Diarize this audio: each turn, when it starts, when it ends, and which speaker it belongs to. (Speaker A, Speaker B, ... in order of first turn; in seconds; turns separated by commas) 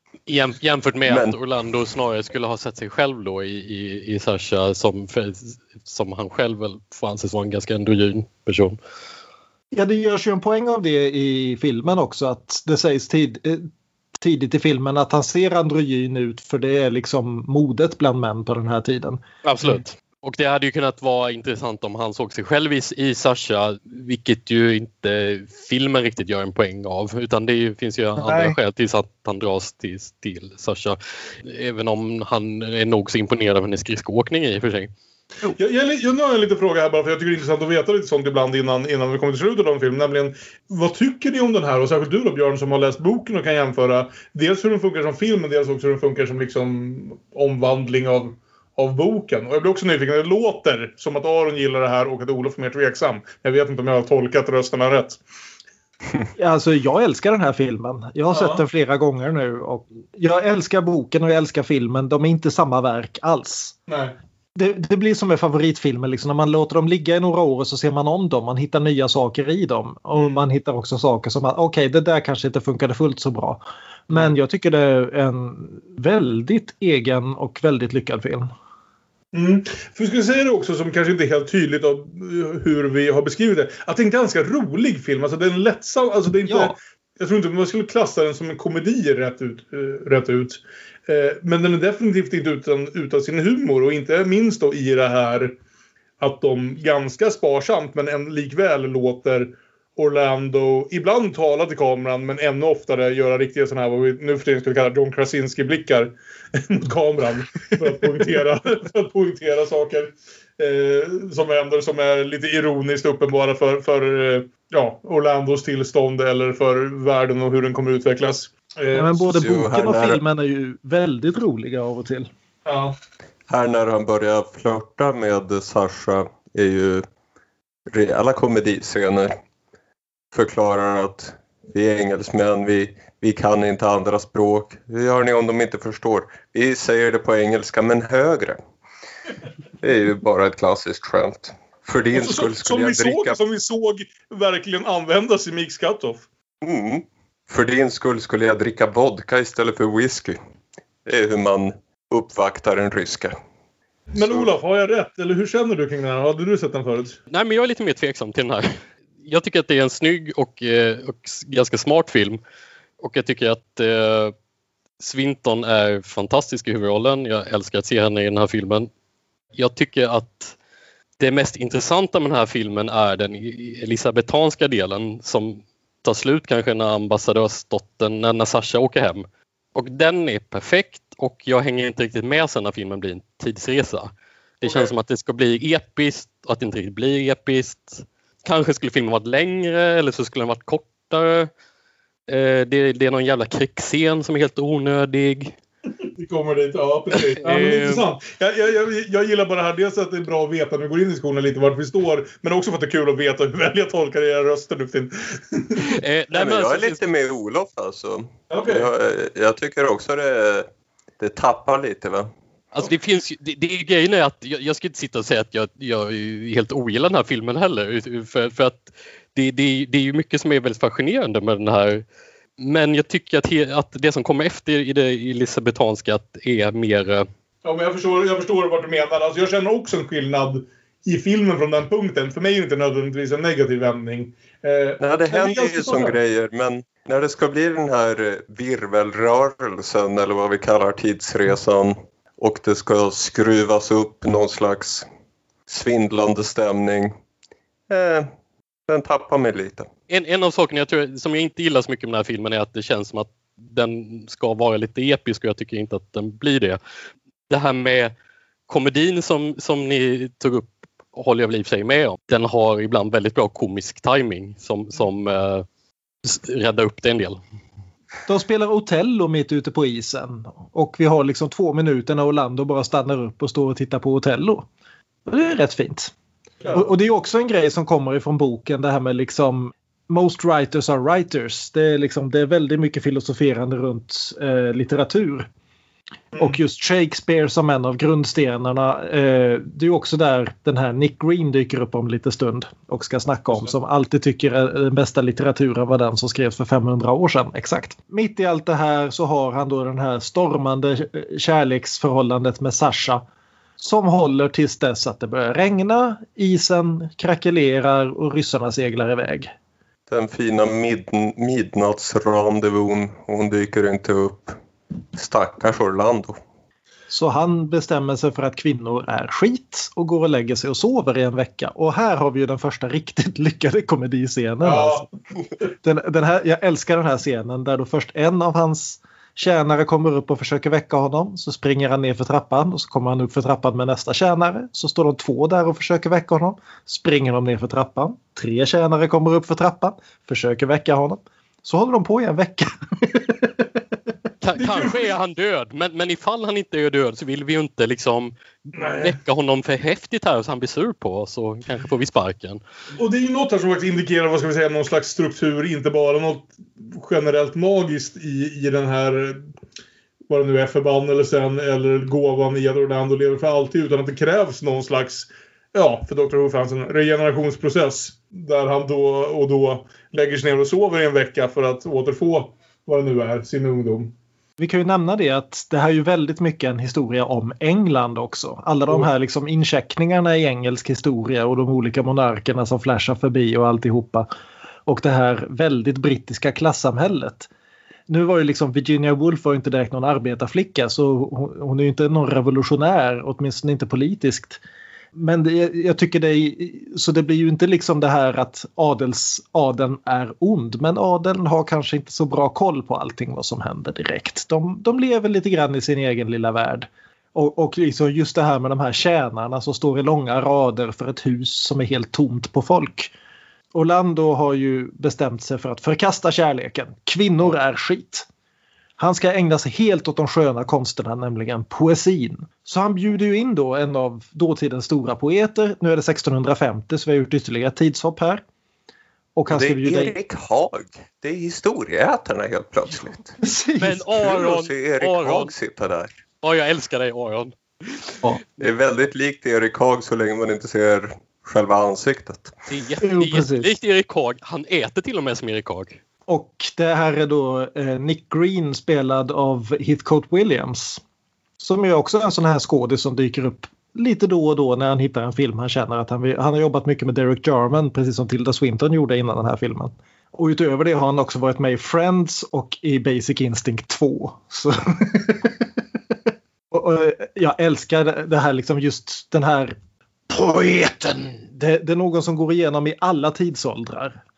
Speaker A: 0.3-8.8, Speaker B: 1.1-1.4, Speaker C: 9.7-13.7, Speaker C: 14.2-19.2, Speaker A: 19.4-34.9, Speaker C: 28.2-28.5, Speaker D: 35.6-55.2, Speaker C: 56.4-63.8, Speaker D: 58.3-58.6, Speaker D: 63.9-64.1, Speaker C: 64.5-78.5, Speaker D: 70.1-70.4, Speaker D: 79.3-95.5, Speaker C: 86.5-86.7, Speaker D: 96.2-119.3, Speaker C: 118.9-122.3, Speaker B: 119.3-120.2, Speaker D: 122.7-123.0, Speaker B: 123.5-127.0, Speaker B: 127.9-129.3, Speaker B: 130.3-138.6, Speaker B: 139.8-143.4, Speaker D: 142.1-146.2, Speaker B: 146.6-150.4, Speaker B: 151.1-153.3, Speaker D: 154.1-157.2, Speaker B: 154.2-154.5, Speaker A: 157.3-162.4, Speaker A: 163.0-164.3, Speaker A: 165.0-168.9, Speaker A: 169.6-170.6, Speaker A: 171.2-191.5, Speaker D: 184.6-184.9, Speaker A: 192.3-195.6, Speaker D: 196.2-206.0, Speaker A: 197.1-198.1, Speaker A: 205.8-207.0, Speaker B: 206.3-212.3, Speaker D: 208.5-208.9, Speaker A: 212.7-222.1, Speaker A: 222.6-227.3, Speaker D: 227.6-236.2, Speaker B: 235.0-245.1, Speaker B: 245.7-247.2, Speaker B: 247.9-248.3, Speaker B: 248.9-249.9, Speaker A: 250.1-256.8, Speaker A: 257.5-258.1, Speaker A: 258.7-265.6, Speaker A: 266.2-267.4, Speaker C: 268.3-274.6, Speaker C: 275.3-276.1, Speaker D: 276.6-276.9, Speaker C: 276.7-285.5, Speaker C: 286.4-303.2, Speaker C: 303.8-309.5, Speaker B: 310.1-314.6, Speaker B: 315.1-316.4, Speaker C: 317.1-325.0, Speaker D: 324.6-325.1, Speaker C: 325.8-343.6, Speaker A: 344.4-352.6, Speaker D: 344.6-345.2, Speaker D: 348.7-349.1, Speaker D: 353.0-359.4, Speaker D: 360.3-374.1, Speaker C: 374.6-384.3, Speaker C: 384.9-387.5, Speaker C: 388.1-394.6, Speaker C: 395.1-413.1, Speaker C: 413.7-418.3, Speaker C: 419.0-428.4, Speaker C: 429.4-430.1, Speaker B: 429.5-433.4, Speaker C: 433.4-434.0, Speaker A: 433.8-435.5, Speaker B: 434.1-436.2, Speaker A: 436.4-437.5, Speaker B: 438.6-442.5, Speaker A: 442.7-446.0, Speaker C: 443.0-443.7, Speaker C: 446.3-451.0, Speaker C: 451.6-465.5, Speaker C: 466.7-469.7, Speaker C: 470.3-474.2